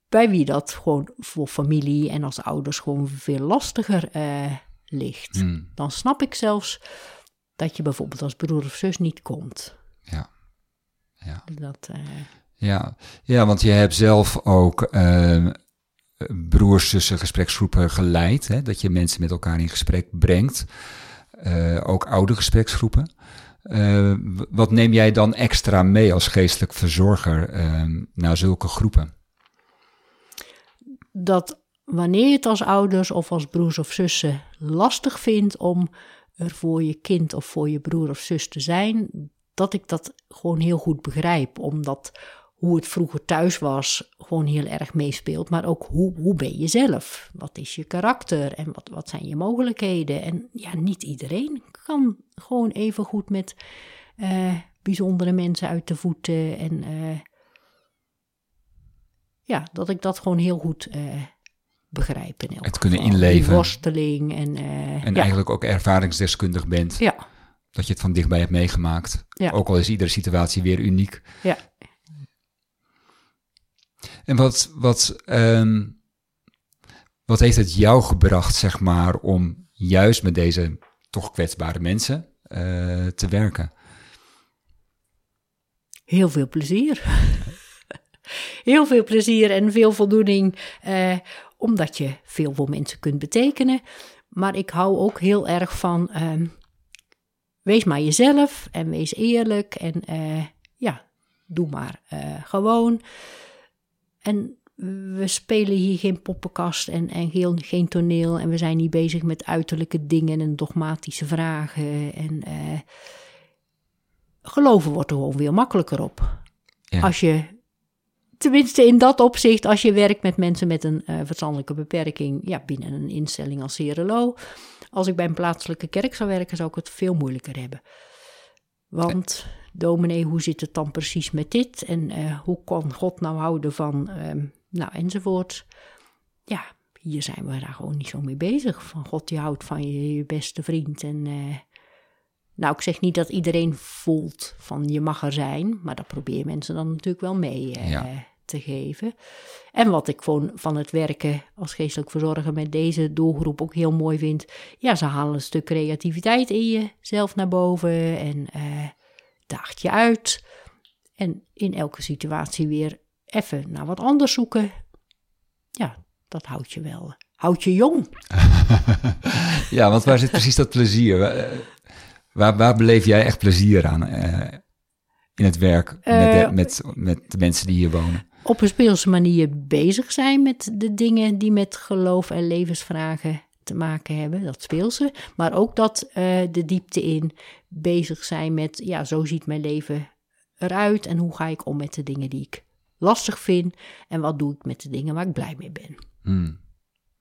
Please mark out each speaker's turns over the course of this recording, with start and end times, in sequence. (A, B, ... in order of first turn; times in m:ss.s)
0:00.1-0:06.8 A
0:05.3-0:05.7 B
0:07.6-0:09.8 A
0:10.1-0:10.3 B
0:11.2-0:11.5 B
0:11.5-0:12.3 A
0:12.6-0:15.6 B
0:16.2-0:20.7 B
0:21.3-0:23.1 B
0:23.6-0:29.1 B
0:31.1-0:53.6 A
0:54.2-0:57.2 A
0:59.5-1:05.3 A
1:02.6-1:03.8 B
1:05.0-1:07.2 B
1:07.0-1:07.3 A
1:07.7-1:11.4 B
1:11.4-1:11.8 A
1:14.3-1:16.0 B
1:17.3-1:23.7 B
1:26.1-1:27.6 A
1:28.6-1:36.6 A
1:37.6-1:43.0 A
1:44.2-1:52.8 A
1:54.4-1:56.4 A
1:57.0-1:57.6 A
1:58.4-2:04.4 A
2:04.9-2:07.8 A
2:08.9-2:15.7 A
2:16.5-2:21.6 A
2:22.6-2:29.1 A
2:29.7-2:39.0 A
2:39.5-2:40.4 A
2:41.2-2:44.8 A
2:45.8-2:48.2 A
2:49.6-2:54.7 B
2:55.4-2:58.3 B
2:56.1-2:56.6 A
2:58.4-3:16.0 A
3:16.2-3:16.6 B